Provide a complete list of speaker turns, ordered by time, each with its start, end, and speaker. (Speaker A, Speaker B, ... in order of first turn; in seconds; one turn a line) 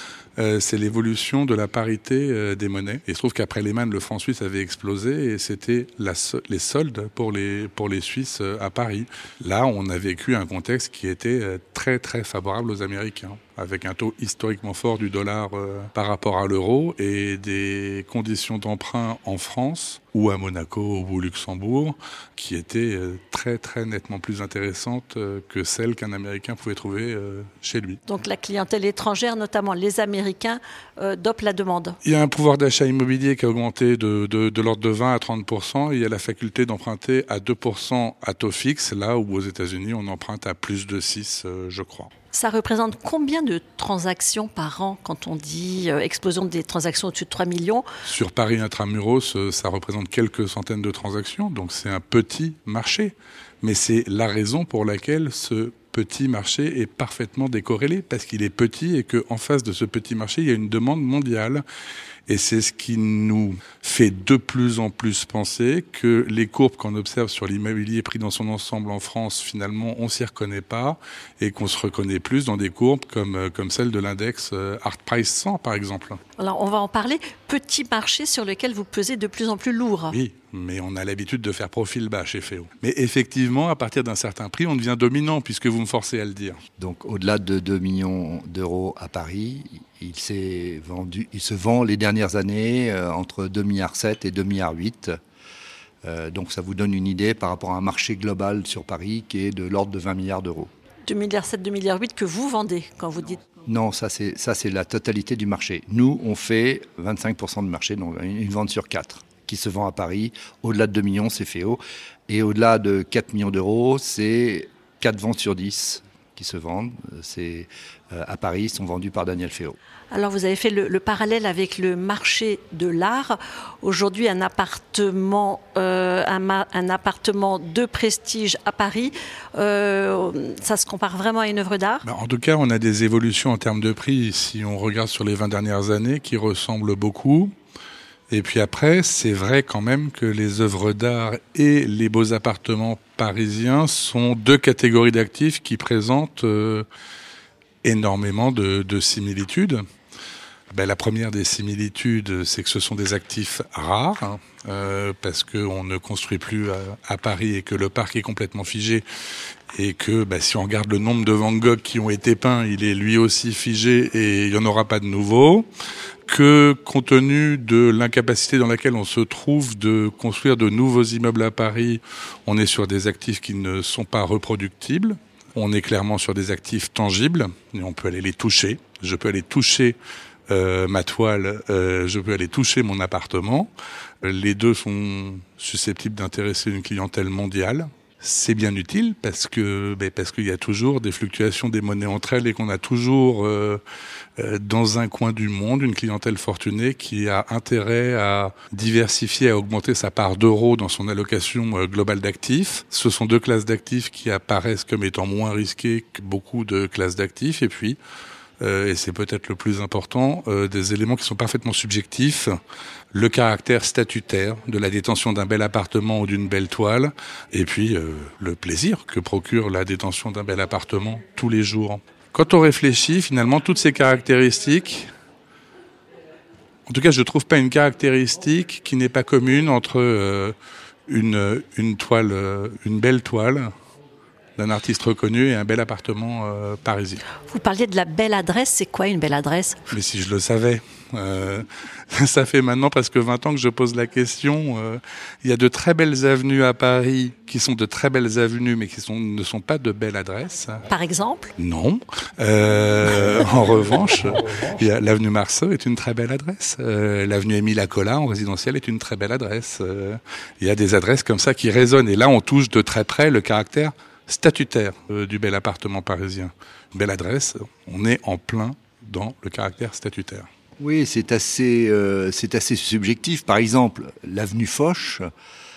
Speaker A: 0.4-28.0
Speaker B: 28.1-32.0
Speaker A: 32.0-42.1
Speaker B: 42.3-47.8
Speaker A: 48.0-61.6
Speaker A: 62.3-76.2
Speaker B: 76.4-80.2
Speaker A: 80.1-86.6
Speaker C: 86.8-95.2
Speaker C: 96.0-100.7
Speaker B: 101.1-103.5
Speaker C: 103.6-119.8
Speaker B: 120.1-132.0
Speaker A: 132.0-137.5
Speaker A: 138.3-146.9
Speaker A: 147.8-149.8
Speaker A: 150.7-159.0
Speaker A: 159.7-165.7
Speaker A: 166.3-180.0
Speaker A: 180.5-183.7
Speaker A: 184.2-193.8
Speaker A: 194.4-208.0
Speaker A: 208.6-212.5
Speaker A: 213.1-225.1
Speaker A: 226.9-230.5
Speaker A: 231.1-233.7
Speaker A: 234.6-237.2
Speaker B: 237.5-239.8
Speaker A: 239.9-250.8
Speaker B: 250.9-251.5
Speaker A: 251.6-270.5
Speaker C: 270.8-275.3